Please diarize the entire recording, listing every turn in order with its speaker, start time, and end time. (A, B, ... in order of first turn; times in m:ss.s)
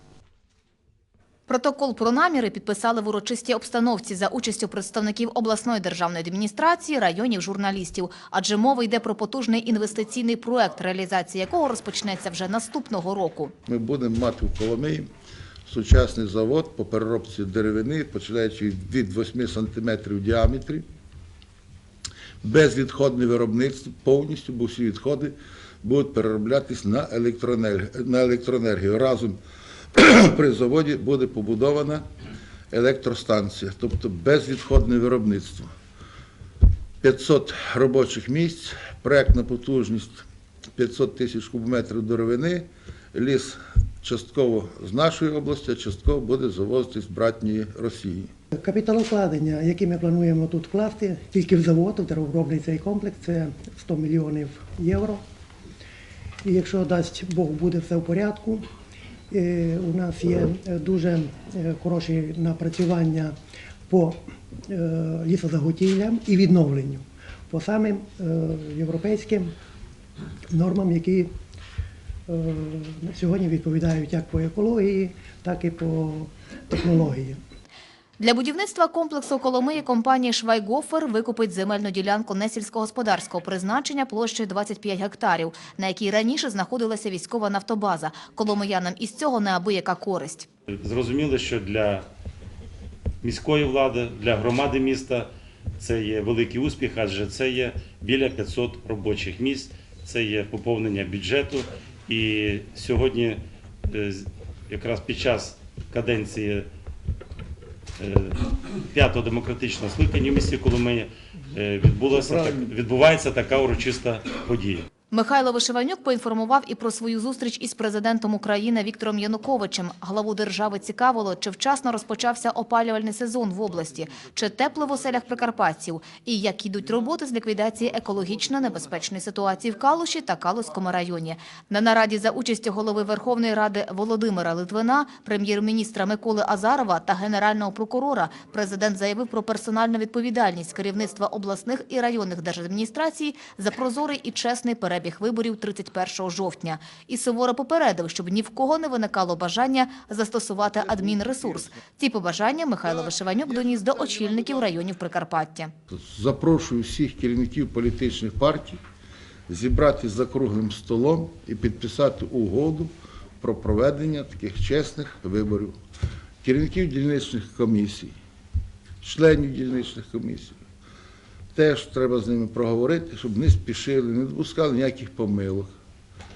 0:01.5-0:13.5 A
0:13.6-0:15.1 B
0:15.6-0:20.8 B
0:22.4-0:29.4 B
0:29.9-0:32.0 B
0:32.7-0:35.7 B
0:37.0-0:40.2 B
0:40.7-0:48.3 B
0:48.5-0:55.2 C
0:56.4-0:58.6 C
0:59.3-1:03.3 C
1:03.9-1:09.5 C
1:10.5-1:11.3 C
1:12.3-1:17.4 C
1:18.2-1:30.5 A
1:30.8-1:32.0 D
1:33.2-1:46.7 D
1:48.0-1:54.9 D
1:55.1-2:35.7 A
2:35.9-2:38.8 B
2:39.5-2:45.8 B
2:46.4-2:48.1 B
2:49.0-2:50.6 B
2:51.5-2:55.7 B